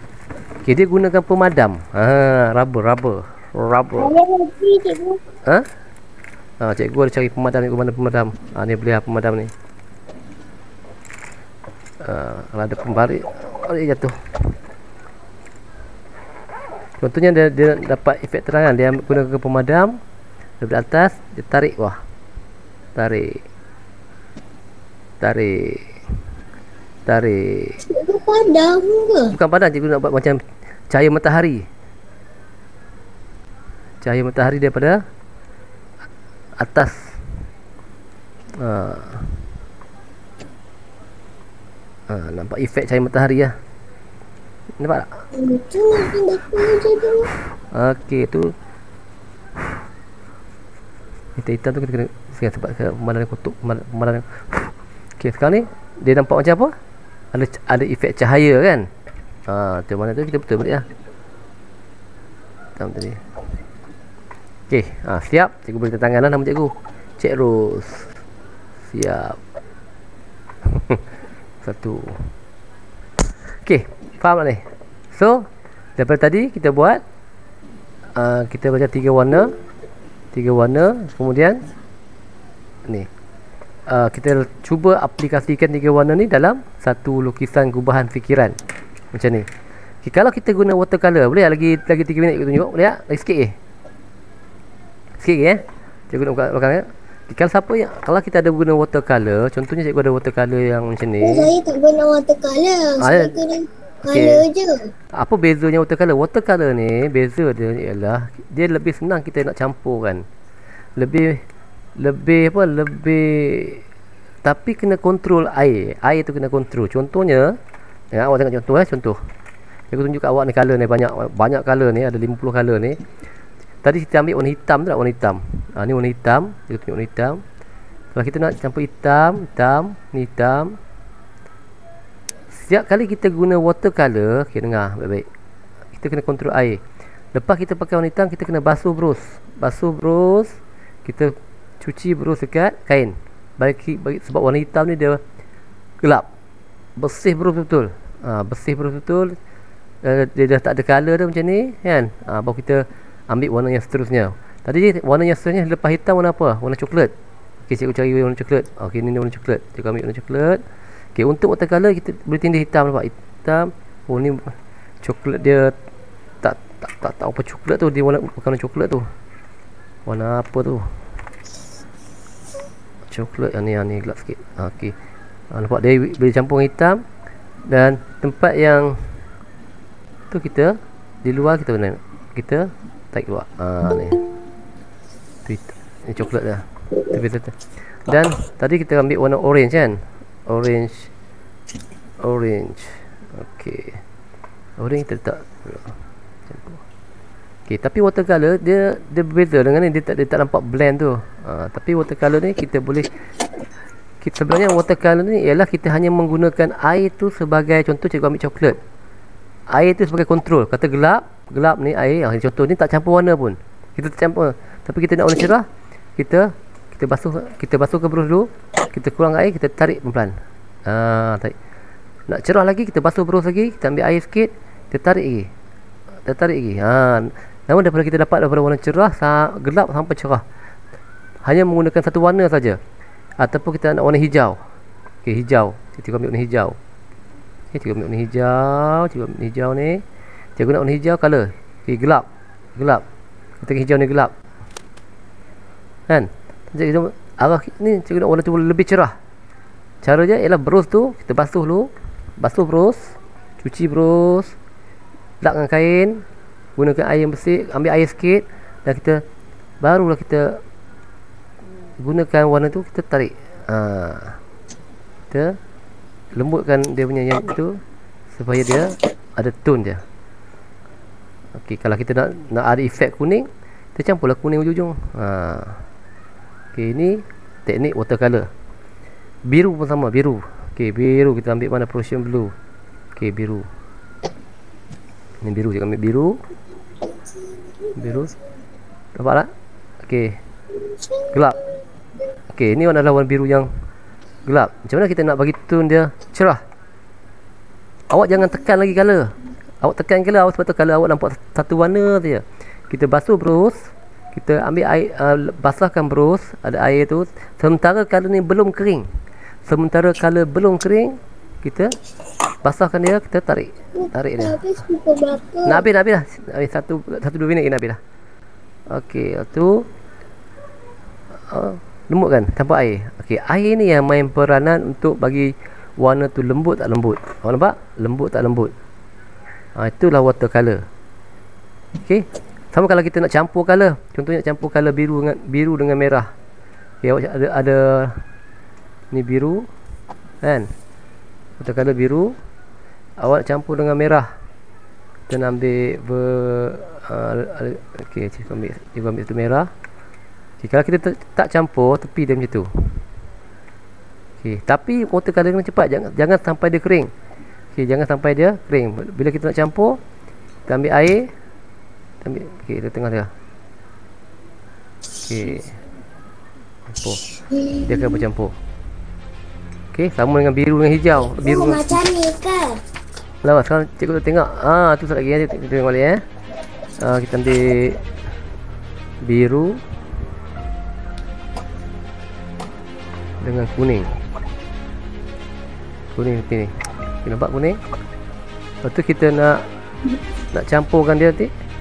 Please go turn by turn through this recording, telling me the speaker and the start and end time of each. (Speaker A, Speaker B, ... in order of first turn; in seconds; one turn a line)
Speaker A: 0.6-4.1
Speaker B: 4.0-5.2
Speaker A: 6.6-9.5
Speaker A: 12.0-14.1
Speaker A: 17.0-19.9
Speaker A: 20.6-22.0
Speaker A: 22.9-23.4
Speaker A: 25.2-25.9
Speaker A: 27.1-27.8
Speaker B: 27.9-29.3
Speaker A: 29.3-31.6
Speaker A: 34.0-35.0
Speaker A: 36.6-37.1
Speaker A: 38.6-39.4
Speaker A: 42.1-43.5
Speaker A: 44.8-45.1
Speaker B: 45.3-47.3
Speaker A: 47.7-48.5
Speaker A: 51.4-56.7
Speaker A: 57.3-58.9
Speaker A: 59.5-60.9
Speaker A: 62.8-63.2
Speaker A: 64.7-68.1
Speaker A: 68.9-69.4
Speaker A: 70.7-71.0
Speaker A: 71.6-72.3
Speaker A: 73.6-75.5
Speaker A: 76.0-77.0
Speaker A: 78.2-79.5
Speaker A: 80.3-81.6
Speaker A: 83.9-88.6
Speaker A: 89.1-89.5
Speaker A: 90.0-93.5
Speaker A: 95.2-101.5
Speaker B: 101.2-104.9
Speaker A: 103.0-103.4
Speaker A: 104.0-104.4
Speaker A: 105.2-110.2
Speaker A: 111.0-111.4
Speaker A: 112.0-113.8
Speaker A: 114.4-117.5
Speaker A: 118.1-119.2
Speaker A: 119.9-123.0
Speaker A: 123.8-127.4
Speaker A: 128.1-130.8
Speaker A: 132.5-135.2
Speaker A: 135.9-136.8
Speaker A: 137.3-145.2
Speaker A: 146.0-146.3
Speaker A: 147.0-149.3
Speaker A: 150.0-157.1
Speaker A: 157.7-160.6
Speaker A: 161.2-164.5
Speaker A: 165.0-165.7
Speaker A: 166.4-169.0
Speaker A: 170.1-170.9
Speaker A: 173.1-174.9
Speaker A: 175.5-177.0
Speaker A: 177.7-179.2
Speaker A: 180.3-184.2
Speaker A: 185.4-191.1
Speaker A: 192.2-194.0
Speaker A: 194.8-195.9
Speaker A: 196.5-196.8
Speaker A: 197.7-203.1
Speaker A: 204.2-208.8
Speaker A: 209.7-215.7
Speaker A: 216.2-220.3
Speaker A: 220.8-221.5
Speaker A: 222.3-225.5
Speaker A: 226.2-230.4
Speaker A: 231.4-232.8
Speaker A: 233.4-234.6
Speaker A: 235.2-236.8
Speaker A: 237.7-240.0
Speaker A: 240.6-243.0
Speaker A: 243.6-244.3
Speaker A: 246.1-249.1
Speaker A: 250.0-254.5
Speaker A: 255.4-256.2
Speaker A: 256.8-259.2
Speaker A: 259.8-260.6
Speaker A: 262.0-264.4
Speaker A: 265.3-265.6
Speaker A: 266.3-267.8
Speaker A: 268.3-270.0
Speaker A: 271.6-275.8
Speaker A: 276.7-278.5
Speaker A: 279.4-282.5
Speaker A: 283.1-283.6
Speaker A: 285.4-286.4
Speaker B: 287.0-288.4
Speaker A: 288.0-288.3
Speaker A: 289.1-289.5
Speaker A: 290.0-290.4
Speaker B: 290.7-291.8
Speaker A: 291.3-291.6
Speaker A: 292.5-293.7
Speaker A: 294.4-296.6
Speaker A: 298.1-303.8
Speaker A: 304.3-309.1
Speaker A: 309.7-311.9
Speaker A: 312.6-314.6
Speaker B: 313.9-315.8
Speaker A: 315.6-318.0
Speaker A: 318.9-319.8
Speaker A: 321.5-328.7
Speaker A: 329.8-330.8
Speaker A: 332.0-336.3
Speaker A: 337.0-338.2
Speaker A: 339.1-339.6
Speaker A: 340.4-340.7
Speaker A: 341.6-342.3
Speaker A: 343.2-344.3
Speaker A: 345.3-349.7
Speaker A: 350.6-352.7
Speaker A: 354.4-357.1
Speaker A: 357.7-360.0
Speaker A: 360.7-361.3
Speaker A: 362.2-363.3
Speaker A: 365.2-365.8
Speaker A: 366.9-367.2
Speaker B: 367.5-368.2
Speaker A: 367.8-368.5
Speaker A: 369.9-372.0
Speaker B: 371.2-372.8
Speaker A: 373.4-376.2
Speaker A: 377.0-378.0
Speaker A: 379.2-379.8
Speaker A: 383.4-384.1
Speaker A: 386.1-386.7
Speaker A: 387.2-387.8
Speaker A: 388.8-389.6
Speaker A: 390.5-391.5